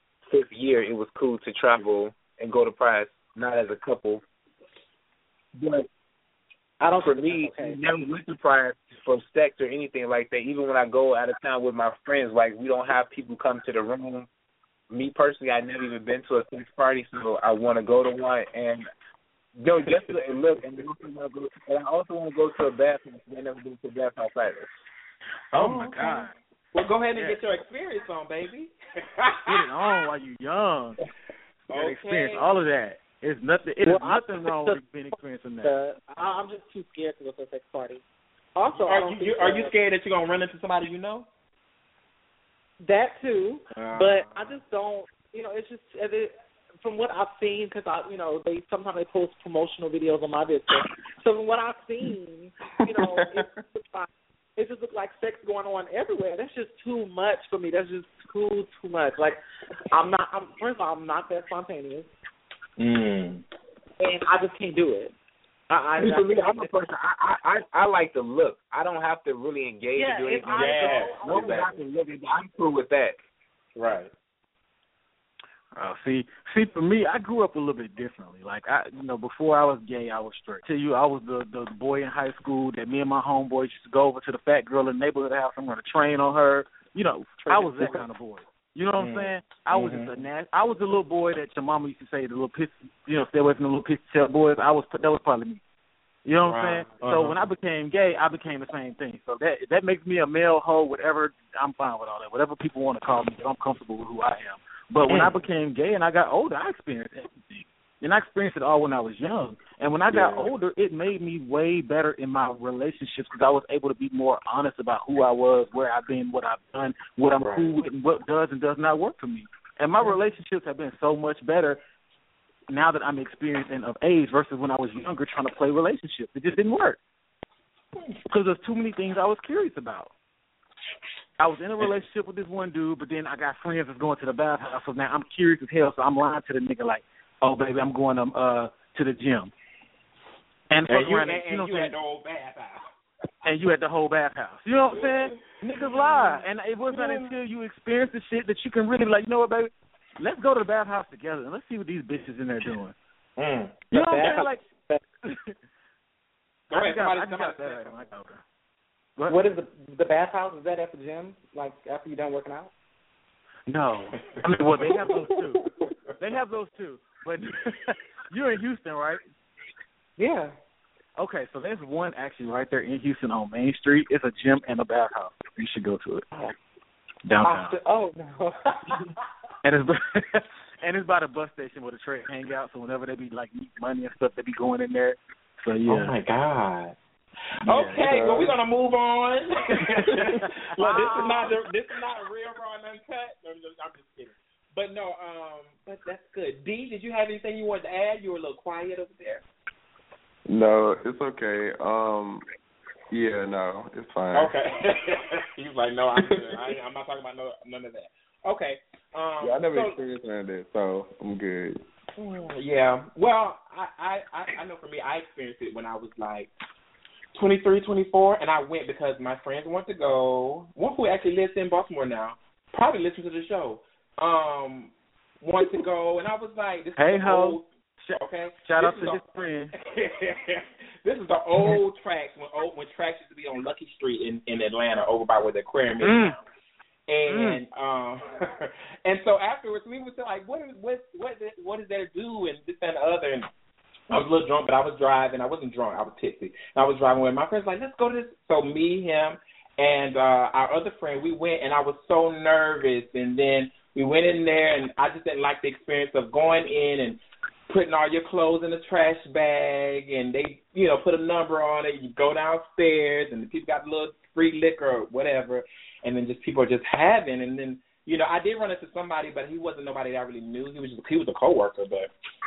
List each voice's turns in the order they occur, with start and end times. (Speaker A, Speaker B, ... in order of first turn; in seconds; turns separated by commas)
Speaker A: 0.3-4.2, Speaker A: 5.6-5.9, Speaker B: 6.8-7.8, Speaker A: 7.0-14.3, Speaker A: 14.9-18.9, Speaker A: 19.6-24.7, Speaker C: 25.5-26.3, Speaker D: 25.5-30.0, Speaker C: 29.5-31.0, Speaker D: 31.7-32.5, Speaker C: 31.7-35.7, Speaker B: 33.9-34.8, Speaker B: 35.6-38.0, Speaker B: 38.5-39.7, Speaker D: 38.7-41.3, Speaker B: 42.8-59.4, Speaker D: 43.8-44.6, Speaker E: 52.9-53.6, Speaker B: 59.9-62.1, Speaker D: 62.8-63.4, Speaker B: 64.0-65.1, Speaker B: 65.7-66.7, Speaker A: 66.0-73.2, Speaker B: 70.0-71.7, Speaker D: 70.5-71.7, Speaker D: 73.8-74.1, Speaker C: 75.8-95.6, Speaker D: 87.5-88.0, Speaker D: 89.0-90.1, Speaker C: 96.2-121.8, Speaker D: 96.4-97.4, Speaker D: 105.1-105.4, Speaker D: 110.1-110.5, Speaker D: 117.3-117.7, Speaker C: 122.7-127.0, Speaker C: 128.3-130.1, Speaker C: 131.4-139.5, Speaker C: 140.7-141.9, Speaker D: 140.9-142.9, Speaker C: 143.4-153.0, Speaker D: 145.7-147.3, Speaker D: 153.4-153.8, Speaker C: 153.9-154.6, Speaker B: 153.9-155.0, Speaker C: 155.2-155.6, Speaker D: 156.7-158.1, Speaker C: 156.7-158.4, Speaker C: 159.2-159.5, Speaker B: 159.3-162.7, Speaker C: 163.7-165.7, Speaker D: 164.3-165.0, Speaker C: 166.2-169.2, Speaker B: 170.2-170.6, Speaker C: 171.2-176.3, Speaker C: 177.3-177.8, Speaker B: 177.4-179.1, Speaker C: 179.6-186.2, Speaker D: 185.9-186.9, Speaker D: 187.7-199.4, Speaker C: 187.7-188.3, Speaker E: 188.1-188.4, Speaker C: 189.7-191.5, Speaker E: 200.5-202.4, Speaker E: 203.1-204.5, Speaker D: 204.3-210.0, Speaker E: 206.3-206.5, Speaker E: 209.4-211.8, Speaker D: 212.2-216.5, Speaker D: 217.3-227.6, Speaker C: 227.0-229.7, Speaker D: 228.2-236.4, Speaker C: 236.0-236.4, Speaker D: 237.1-243.5, Speaker C: 237.3-237.6, Speaker D: 244.1-272.1